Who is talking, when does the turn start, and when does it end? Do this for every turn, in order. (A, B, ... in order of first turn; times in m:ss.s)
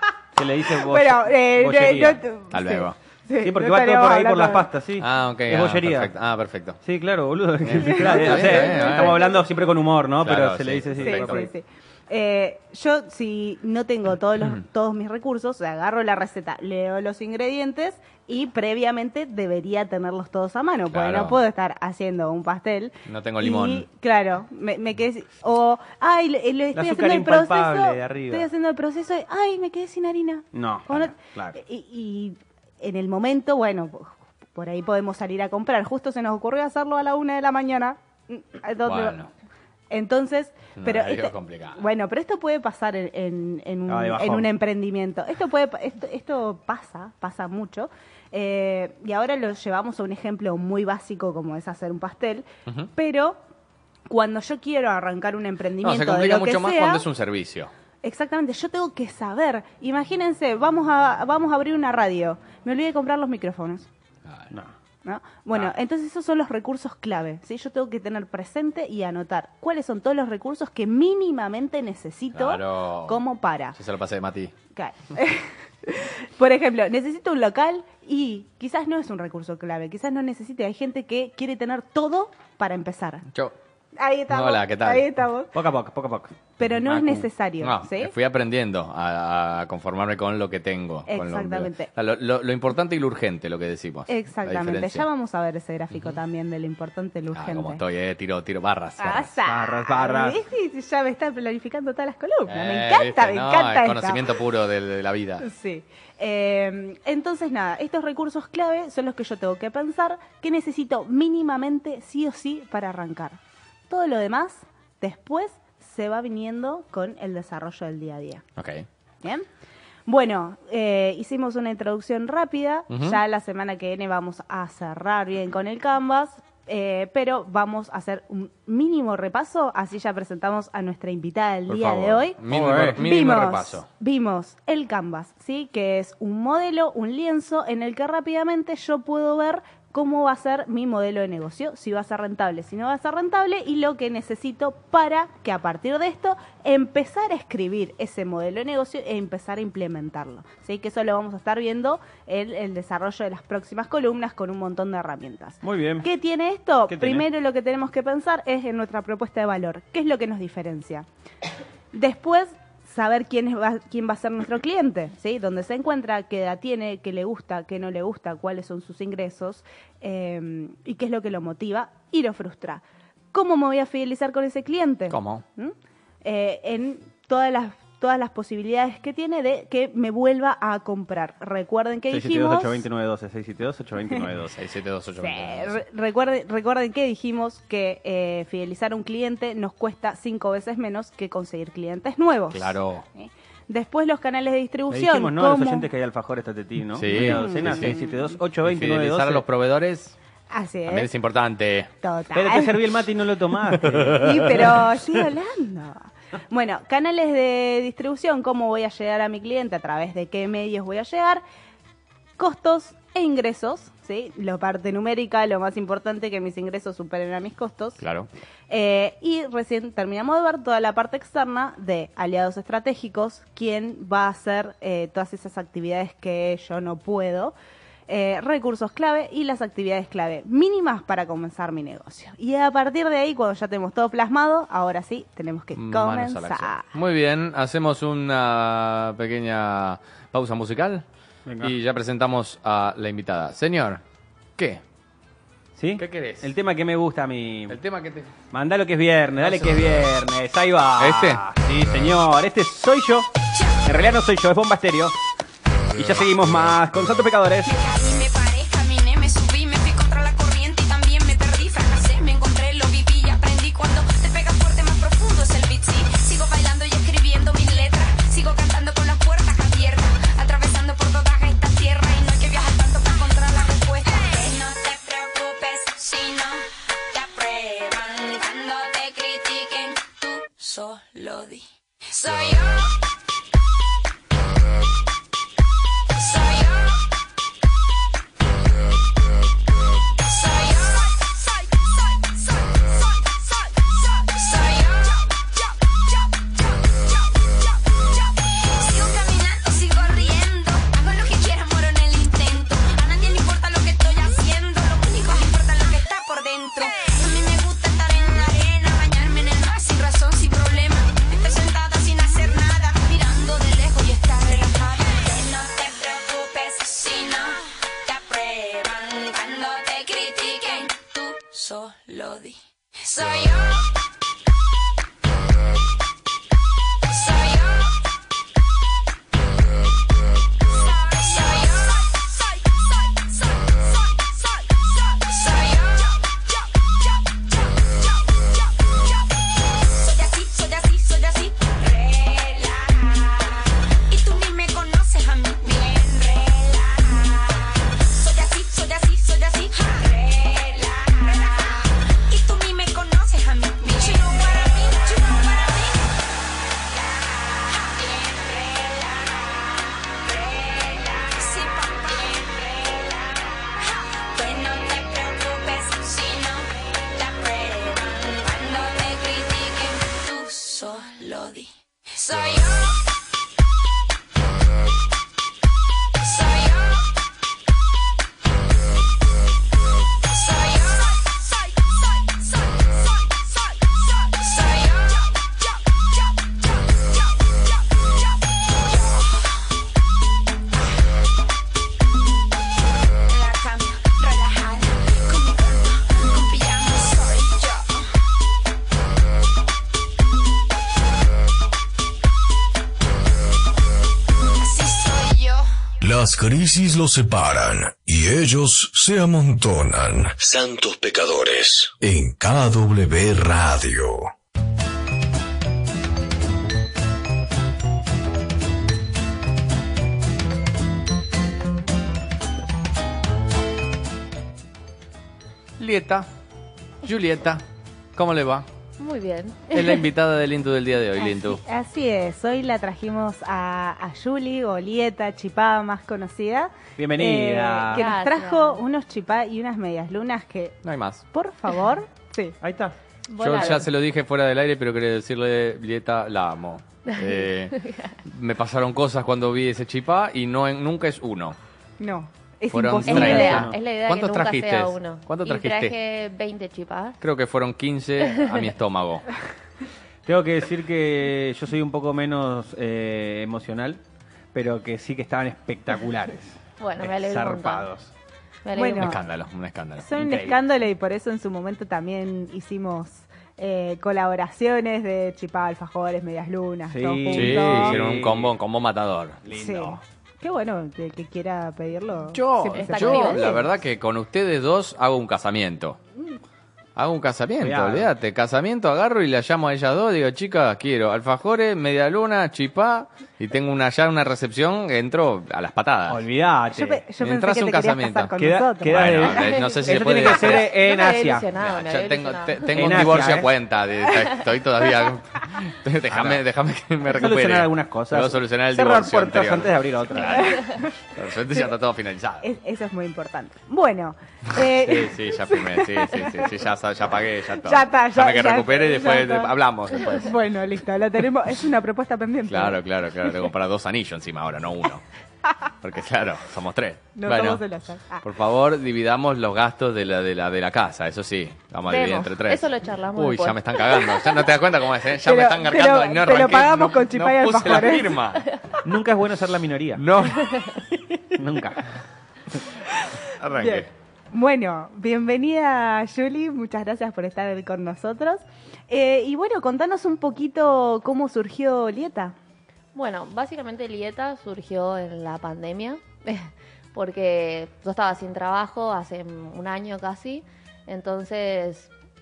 0:00.4-0:02.2 A
0:00.8-0:04.7 B
0:02.5-0:03.0 C
0:03.4-0:06.1 A
0:05.0-0:06.8 C
0:06.8-0:11.5 A
0:07.6-0:09.3 C
0:07.8-0:09.2 B
0:10.2-0:11.4 C
0:11.0-0:39.2 B
0:20.9-0:21.4 C
0:23.1-0:23.8 C
0:26.7-0:28.5 A
0:30.5-0:31.6 A
0:38.8-0:39.3 C
0:39.9-0:53.4 B
0:40.8-0:41.8 C
0:43.9-0:44.5 A
0:54.1-0:57.0 B
0:55.8-0:57.7 C
0:58.0-1:03.9 B
1:05.0-1:13.8 B
1:12.3-1:13.2 C
1:13.7-1:14.5 C
1:14.8-1:23.2 B
1:24.0-1:25.5 B
1:24.3-1:25.1 C
1:25.5-1:26.4 A
1:26.6-1:28.1 B
1:26.8-1:35.1 C
1:31.1-1:31.9 B
1:34.1-1:37.8 B
1:35.9-1:36.2 C
1:37.4-1:39.3 C
1:39.0-1:44.3 B
1:39.5-1:40.4 A
1:42.5-1:45.4 C
1:45.4-1:58.4 B
1:58.6-1:58.9 C
2:00.1-2:12.4 B
2:02.9-2:03.2 C
2:11.7-2:13.9 C
2:12.5-2:13.0 A
2:13.0-2:41.1 B
2:35.6-2:36.1 A
2:36.9-2:37.2 A
2:41.9-3:02.8 B
2:55.1-2:55.4 C
3:02.1-3:04.6 A
3:04.4-3:05.8 C
3:05.2-3:15.9 B
3:12.5-3:13.0 C
3:14.9-3:19.4 A
3:17.0-3:18.0 C
3:17.1-3:18.2 B
3:18.6-3:20.2 C
3:20.5-3:21.1 B
3:20.9-3:21.9 C
3:22.0-3:22.8 B
3:22.4-3:24.4 A
3:23.8-3:24.3 C
3:24.1-3:31.4 B
3:32.4-3:38.0 B
3:38.0-3:38.3 C
3:38.7-3:47.6 B
3:48.1-3:56.9 B
3:55.8-4:01.0 C
4:01.5-4:01.8 A
4:01.6-4:04.0 C
4:05.8-4:07.8 A
4:06.0-4:06.5 C
4:07.7-4:08.3 C
4:08.5-4:13.3 A
4:09.4-4:09.8 C
4:11.0-4:11.4 C
4:13.5-4:13.8 D
4:13.8-4:15.2 A
4:15.9-4:17.7 A
4:17.6-4:42.9 D
4:46.1-4:47.0 D
4:50.2-5:23.9 D
5:27.1-5:28.0 D
5:30.6-5:56.2 D
5:57.0-5:59.5 D
6:00.2-6:13.0 D
6:16.2-6:17.1 D
6:20.2-6:29.7 D
6:33.3-6:38.0 D
6:44.6-6:45.7 D
6:46.0-6:54.3 E
7:05.8-7:06.3 C
7:07.0-7:07.6 C
7:08.2-7:08.7 C
7:09.0-7:10.1 F
7:09.7-7:11.6 C
7:11.2-7:20.8 B
7:17.0-7:18.1 A
7:17.9-7:18.8 F
7:20.8-7:21.2 C
7:21.3-7:22.6 B
7:22.6-7:23.0 A
7:23.3-7:23.9 F
7:23.4-7:31.6 C
7:27.1-7:28.2 F
7:32.0-7:33.7 B
7:32.7-7:36.0 C
7:33.1-7:37.2 F
7:33.2-7:33.8 A
7:37.2-7:39.3 C
7:38.2-7:38.6 F
7:40.2-7:44.0 A
7:44.5-7:48.1 A
7:46.8-7:47.9 F
7:48.6-7:49.2 F
7:48.8-7:49.2 B
7:49.0-7:50.1 C
7:50.0-7:58.0 B
7:50.2-7:50.6 A
7:56.9-7:58.5 A
7:57.3-7:59.4 C
7:59.4-8:00.0 A
7:59.5-8:03.7 B
8:02.3-8:06.0 C
8:02.8-8:03.6 F
8:07.0-8:16.2 C
8:07.6-8:08.1 A
8:16.1-8:17.0 A
8:16.7-8:19.2 B
8:17.2-8:20.7 C
8:18.4-8:21.5 A
8:19.4-8:23.1 F
8:21.6-8:32.5 C
8:22.7-8:23.5 A
8:26.1-8:26.4 A
8:27.1-8:30.6 A
8:30.3-8:31.0 B
8:32.4-8:36.5 B
8:34.6-8:40.4 C
8:37.6-8:42.8 B
8:42.5-8:45.0 C
8:45.8-8:47.6 C
8:47.2-8:48.2 B
8:48.2-8:58.5 C
8:51.9-8:54.3 F
8:55.2-8:58.2 B
8:58.8-9:00.1 A
9:00.0-9:00.5 C
9:00.4-9:00.8 F
9:01.4-9:01.8 A
9:03.4-9:03.9 C
9:03.6-9:12.4 B
9:12.9-9:21.9 F